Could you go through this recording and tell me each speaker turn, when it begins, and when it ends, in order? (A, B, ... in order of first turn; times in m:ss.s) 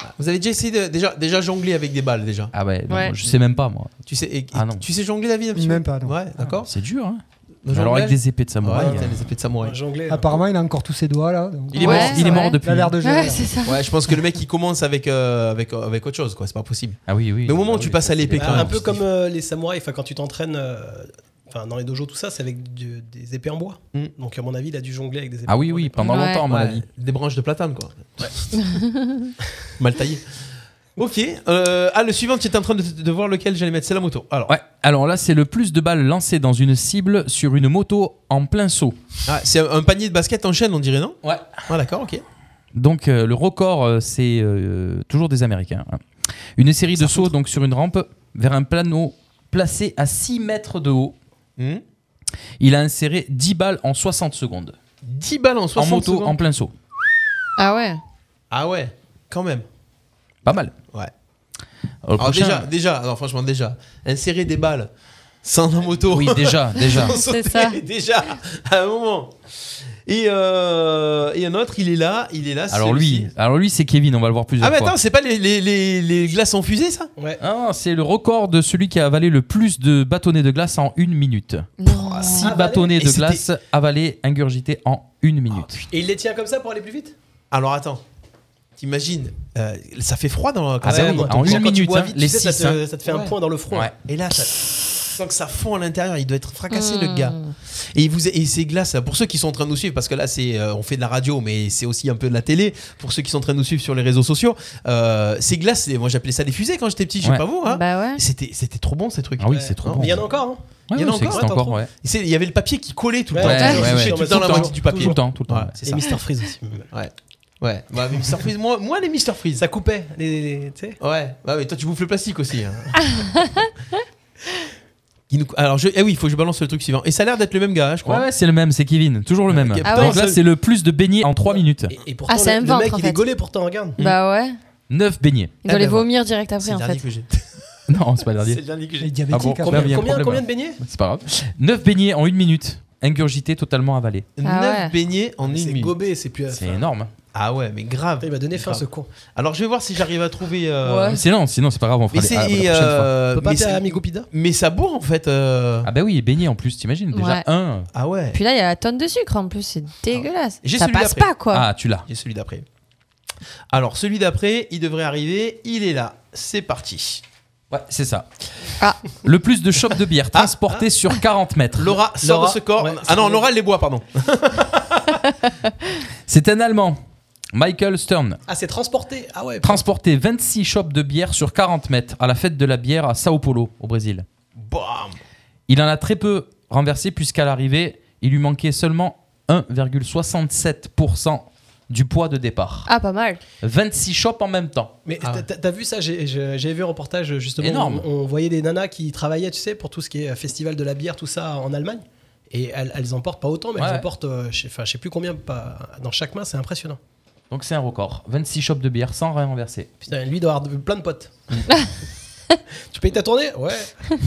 0:00.1-0:02.5 A
0:02.5-0:04.0 B
0:02.9-0:03.2 C
0:04.1-0:06.7 A
0:04.5-0:04.9 B
0:05.6-0:06.2 D
0:06.4-0:09.3 B
0:07.6-0:09.8 A
0:08.7-0:09.1 E
0:09.6-0:10.4 E
0:10.1-0:13.5 D
0:11.7-0:13.0 B
0:11.8-0:13.8 C
0:13.6-0:19.0 A
0:17.1-0:19.0 B
0:18.4-0:26.2 E
0:25.5-0:26.9 B
0:26.0-0:26.4 C
0:26.3-0:28.6 A
0:28.7-0:29.3 C
0:29.8-0:30.2 A
0:31.0-0:34.5 A
0:34.5-0:39.0 B
0:39.3-0:42.2 A
0:41.2-0:41.7 B
0:42.7-0:46.0 B
0:46.6-0:51.2 B
0:47.0-0:47.3 A
0:51.6-0:51.8 A
0:52.6-0:54.7 B
0:55.0-0:56.4 A
0:55.7-0:56.7 B
0:57.6-0:58.0 C
0:58.5-0:59.6 A
1:00.4-1:00.7 B
1:02.0-1:02.7 B
1:02.2-1:04.9 A
1:05.4-1:09.4 A
1:06.1-1:07.2 B
1:07.0-1:07.8 C
1:10.1-1:13.3 A
1:12.7-1:15.0 B
1:14.6-1:17.1 A
1:17.4-1:21.7 B
1:21.8-1:22.5 C
1:21.9-1:23.4 A
1:22.3-1:25.8 B
1:22.4-1:22.9 E
1:25.9-1:27.2 E
1:27.5-1:28.0 A
1:28.8-1:31.7 A
1:30.8-1:32.8 B
1:30.8-1:33.9 E
1:33.1-1:33.3 A
1:34.0-1:50.3 A
1:36.7-1:37.5 C
1:47.2-1:47.5 B
1:47.7-1:48.2 C
1:49.4-1:51.9 B
1:49.5-1:50.6 E
1:51.0-1:56.1 A
1:51.3-1:51.8 E
1:53.3-1:55.2 E
1:53.4-1:56.0 B
1:55.8-1:56.9 E
1:56.9-1:59.6 A
1:59.6-2:01.0 E
2:01.0-2:03.3 A
2:03.2-2:03.7 C
2:05.3-2:08.3 A
2:08.0-2:11.9 B
2:09.5-2:10.3 A
2:09.8-2:10.2 C
2:11.5-2:14.0 E
2:12.3-2:13.2 C
2:14.0-2:14.6 C
2:14.9-2:15.7 B
2:15.6-2:17.0 C
2:16.6-2:17.4 A
2:17.9-2:18.6 B
2:18.4-2:19.8 A
2:19.0-2:20.1 D
2:19.3-2:24.3 B
2:19.6-2:20.8 E
2:24.4-2:25.9 A
2:24.4-2:24.9 C
2:25.4-2:26.9 E
2:26.5-2:27.1 B
2:27.3-2:31.2 A
2:28.2-2:29.1 E
2:30.8-2:31.2 C
2:31.1-2:33.2 B
2:32.1-2:35.9 A
2:33.3-2:34.3 E
2:35.8-2:37.9 B
2:37.1-2:37.4 C
2:37.9-2:38.4 A
2:38.3-2:41.7 C
2:40.6-2:41.4 A
2:41.4-2:42.1 B
2:42.1-2:42.6 A
2:43.7-2:47.2 A
2:47.7-2:48.3 B
2:49.2-2:52.0 B
2:50.3-2:50.9 A
2:51.8-2:55.1 A
2:52.2-2:53.4 E
2:56.3-2:57.0 B
2:57.5-2:58.4 B
2:58.5-2:59.8 E
2:59.6-3:04.2 B
3:04.6-3:05.2 A
3:05.7-3:12.9 B
3:12.9-3:13.4 C
3:13.6-3:14.9 B
3:15.0-3:27.0 E
3:17.6-3:18.1 B
3:23.8-3:24.1 B
3:27.5-3:29.9 B
3:30.0-3:31.6 E
3:32.9-3:34.0 E